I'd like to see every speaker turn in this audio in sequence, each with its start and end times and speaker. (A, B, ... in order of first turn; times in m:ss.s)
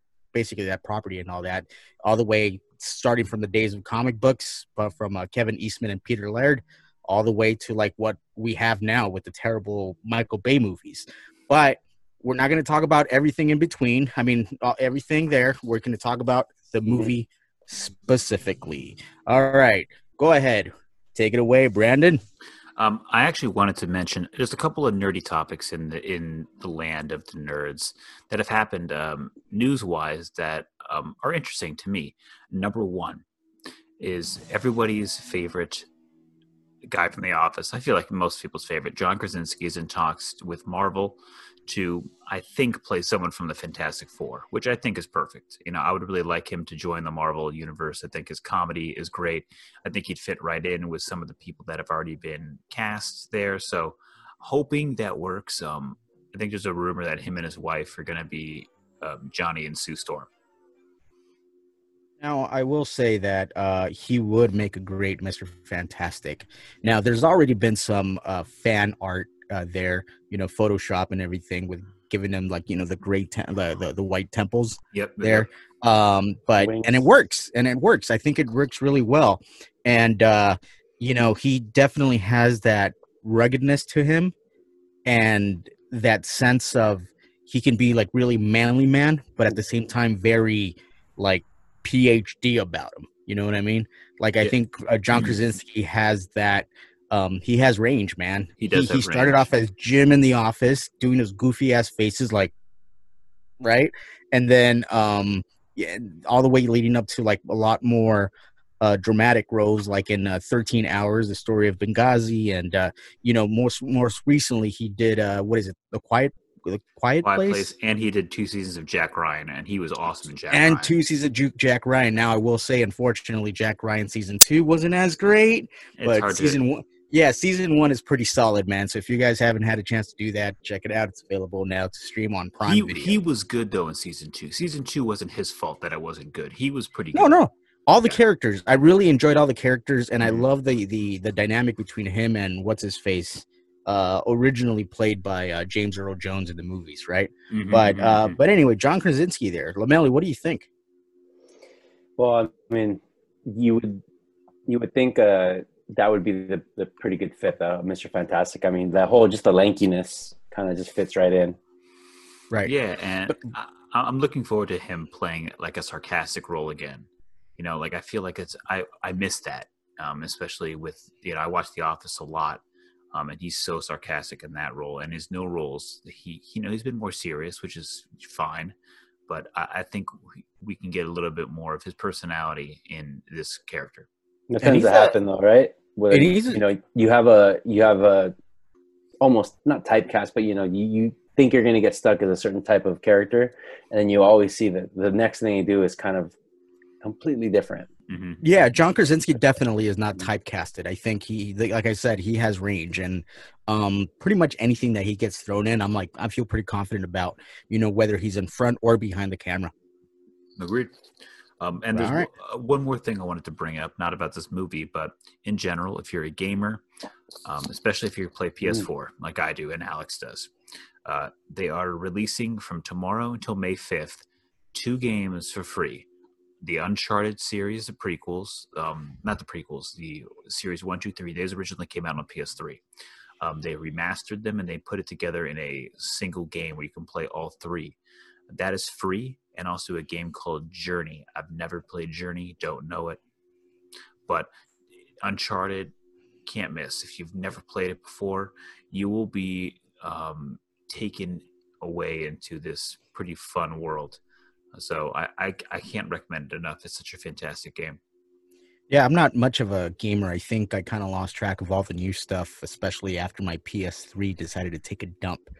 0:00.3-0:22.2 A
0:22.8-0:33.2 B
0:34.0-0:35.8 B
0:36.9-1:00.3 B
1:02.2-1:24.3 A
1:14.9-1:15.5 B
1:16.6-1:17.1 C
1:25.0-1:42.5 A
1:38.6-1:39.5 B
1:43.6-1:57.7 A
1:57.2-2:01.0 B
2:00.5-2:13.2 A
2:06.0-2:06.6 B
2:12.6-2:17.4 B
2:17.1-2:30.7 A
2:27.5-2:28.4 B
2:32.2-2:34.0 C
2:34.7-2:41.6 C
2:42.6-2:47.1 B
2:47.6-2:58.7 B
2:59.3-3:04.1 B
3:04.5-3:08.3 C
3:04.6-3:05.1 A
3:06.1-3:06.6 A
3:09.2-3:16.3 C
3:17.0-3:17.9 C
3:18.1-3:18.4 B
3:18.4-3:29.7 A
3:30.6-3:30.9 B
3:31.6-3:36.8 B
3:31.9-3:32.3 A
3:37.4-3:40.5 B
3:41.0-3:46.0 B
3:46.6-3:52.8 B
3:53.4-3:58.0 B
3:58.5-4:03.2 B
4:05.2-4:05.9 B
4:06.4-4:14.2 B
4:14.7-4:18.0 B
4:18.9-4:25.5 A